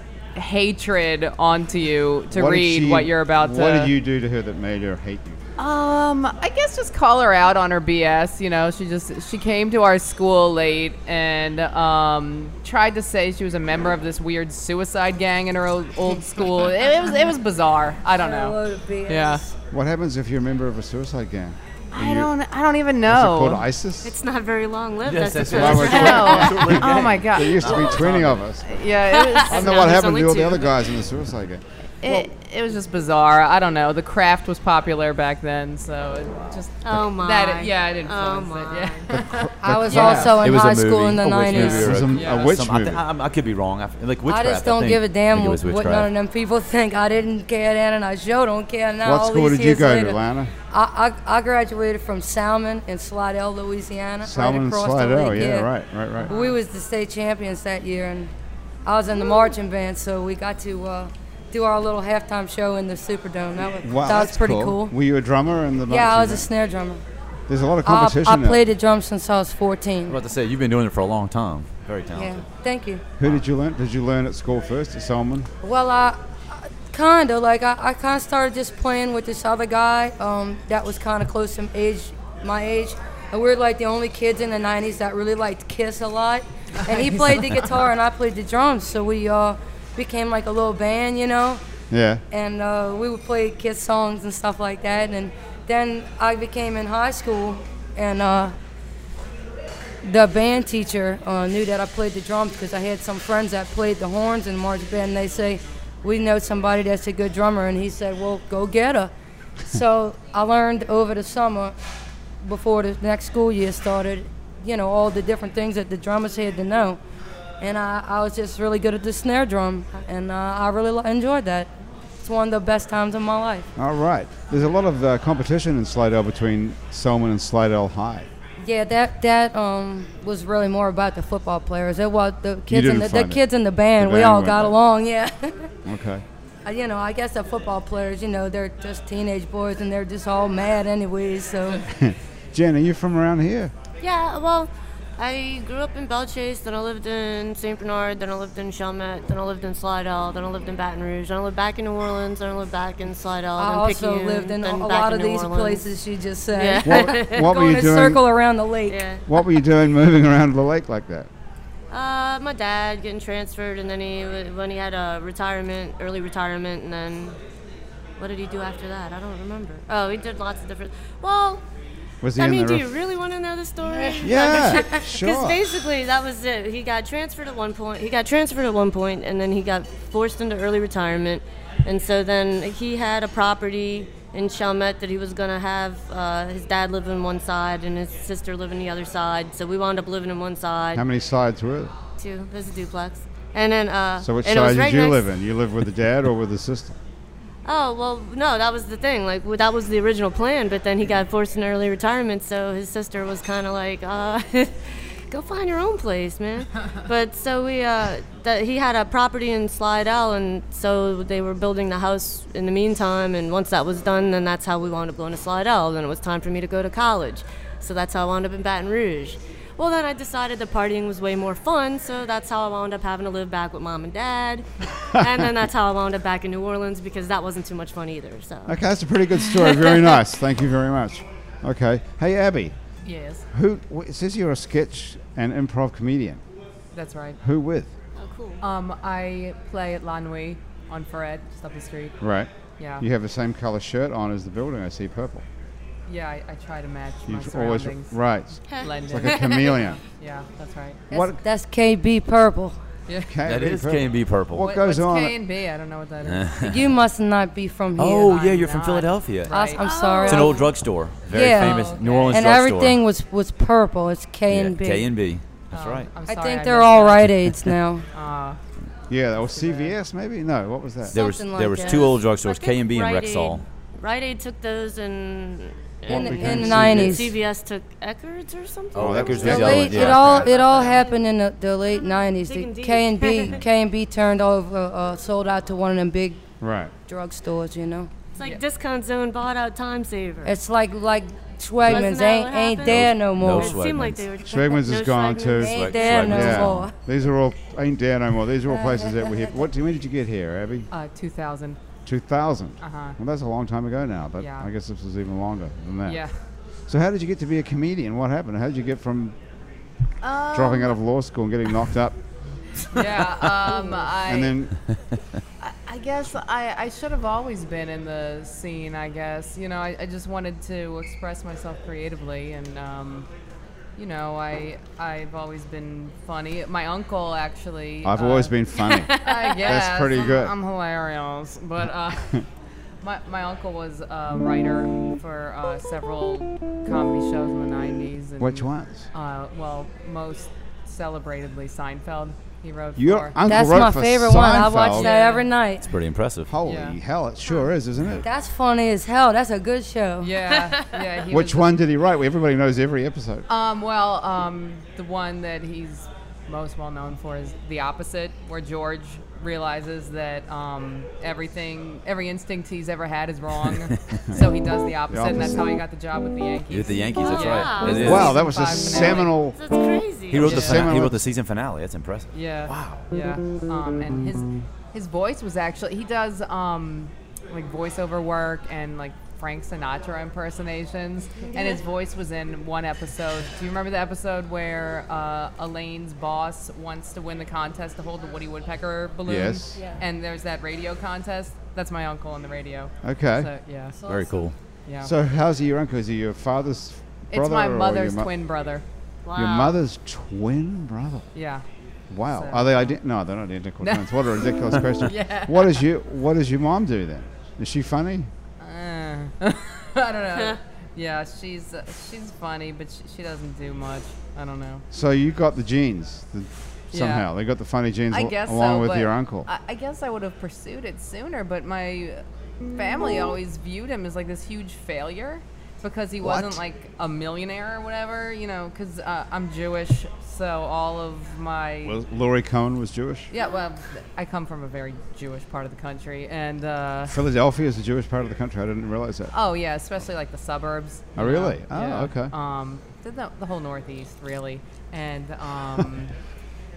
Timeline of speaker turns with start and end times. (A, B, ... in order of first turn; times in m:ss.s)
0:00.4-0:03.9 A
0:02.3-0:05.4 B
0:05.6-0:19.4 A
0:18.2-0:19.5 C
0:19.7-0:22.3 B
0:21.9-0:23.6 A
0:23.1-0:24.2 B
0:24.0-0:26.6 D
0:25.0-0:28.4 E
0:25.4-0:28.7 B
0:25.8-0:28.1 A
0:28.6-0:30.5 A
0:29.1-0:30.6 D
0:29.4-0:32.2 B
0:32.0-0:40.3 A
0:36.8-0:39.1 D
0:39.1-0:40.5 B
0:39.6-0:42.0 C
0:39.9-0:46.1 E
0:41.5-0:43.0 B
0:42.1-0:42.6 A
0:44.3-0:50.2 C
0:49.0-0:50.5 B
0:50.7-0:55.7 C
0:54.2-0:56.3 B
0:56.2-0:56.6 A
0:56.3-0:58.3 C
0:58.9-1:04.9 C
1:03.8-1:06.5 B
1:05.9-1:07.0 C
1:07.5-1:08.6 B
1:07.8-1:10.2 C
1:10.1-1:12.5 E
1:12.1-1:13.0 C
1:13.2-1:15.5 B
1:15.6-1:31.6 C
1:31.9-1:32.2 B
1:32.3-1:38.6 C
1:40.0-1:49.1 C
1:49.6-1:51.8 C
1:52.4-1:57.0 C
1:57.6-2:03.7 C
2:03.8-2:08.3 B
2:08.6-2:15.7 C
2:12.7-2:13.4 B
2:14.0-2:14.8 B
2:15.8-2:16.2 B
2:16.6-2:21.8 C
2:21.9-2:23.7 B
2:24.0-2:35.9 D
2:33.6-2:39.0 C
2:36.5-2:37.5 D
2:36.8-2:38.2 B
2:38.9-2:39.3 D
2:39.3-2:41.3 B
2:41.9-2:47.4 D
2:48.2-2:51.6 D
2:52.2-2:52.9 B
2:52.4-3:11.0 D
2:54.2-2:55.6 B
3:10.9-3:11.9 B
3:12.2-3:15.2 D
3:14.2-3:17.0 B
3:17.6-3:48.8 D
3:48.7-3:52.8 B
3:49.5-3:50.2 D
3:53.0-3:53.5 A
3:53.5-3:56.4 B
3:56.9-3:57.4 A
3:57.4-3:57.9 B
3:58.2-3:58.6 D
3:58.6-4:02.1 A
4:02.2-4:05.4 B
4:02.8-4:03.1 A
4:06.1-4:08.2 A
4:07.3-4:10.0 B
4:08.7-4:09.8 D
4:08.7-4:11.0 A
4:11.1-4:11.4 B
4:11.1-4:12.8 C
4:13.1-4:13.3 A
4:13.2-4:15.4 B
4:13.4-4:14.6 E
4:14.6-4:16.5 A
4:16.2-4:16.9 E
4:16.6-4:18.4 C
4:18.0-4:19.6 E
4:18.2-4:19.9 A
4:19.5-4:20.7 C
4:19.8-4:20.7 D
4:20.2-4:23.0 E
4:21.3-4:25.1 C
4:21.6-4:22.5 A
4:24.5-4:26.1 E
4:25.7-4:27.3 A
4:26.3-4:28.0 C
4:28.1-4:28.6 A
4:29.1-4:31.2 B
4:29.5-4:30.0 A
4:31.1-4:32.2 C
4:31.1-4:33.6 E
4:31.8-4:40.3 D
4:36.1-4:37.3 B
4:36.1-4:37.4 C
4:39.0-4:40.5 E
4:39.0-4:40.5 B
4:39.4-4:46.4 C
4:40.1-4:41.0 A
4:42.5-4:43.6 D
4:46.6-4:46.9 B
4:47.1-4:48.1 C
4:48.4-4:50.6 D
4:50.4-4:53.8 C
4:51.8-4:56.4 D
4:52.9-4:54.2 E
4:54.4-5:00.9 B
4:55.6-4:57.0 C
4:55.6-4:56.9 E
4:58.7-4:59.4 C
5:00.9-5:01.8 A
5:02.1-5:06.2 B
5:02.8-5:03.2 A
5:04.4-5:04.7 A
5:06.0-5:06.4 A
5:06.9-5:09.4 B
5:10.2-5:11.0 A
5:10.5-5:12.2 B
5:12.9-5:14.6 A
5:14.1-5:14.8 B
5:15.6-5:23.3 A
5:24.0-5:28.6 A
5:28.0-5:30.5 B
5:28.9-5:29.6 D
5:29.1-5:32.4 A
5:33.0-5:43.4 A
5:38.4-5:39.1 B
5:43.0-5:45.1 B
5:43.4-5:45.9 C
5:44.9-5:45.5 A
5:45.8-5:46.5 E
5:46.5-5:48.3 B
5:46.6-5:47.0 A
5:48.2-5:50.4 C
5:50.2-5:51.8 A
5:51.3-5:53.5 B
5:53.5-6:09.4 A
6:05.1-6:05.8 B
6:06.7-6:08.3 E
6:07.2-6:10.6 D
6:08.0-6:09.6 B
6:10.3-6:13.0 E
6:10.3-6:11.2 B
6:10.4-6:10.8 A
6:12.3-6:34.0 A
6:29.3-6:29.8 B
6:33.0-6:33.5 B
6:34.0-6:34.4 C
6:34.1-6:34.6 E
6:34.9-6:35.1 A
6:35.0-6:38.3 B
6:37.3-6:38.8 A
6:39.2-6:39.8 D
6:39.4-6:41.3 B
6:41.3-6:41.6 A
6:42.1-6:48.3 B
6:42.3-6:43.0 A
6:43.8-6:45.9 A
6:48.6-6:54.8 A
6:54.9-6:59.5 B
6:56.9-6:57.3 A
6:58.1-7:12.0 A
7:06.2-7:06.6 B
7:11.8-7:13.3 B
7:13.3-7:17.2 A
7:17.1-7:19.3 B
7:19.3-7:26.1 A
7:21.2-7:22.3 B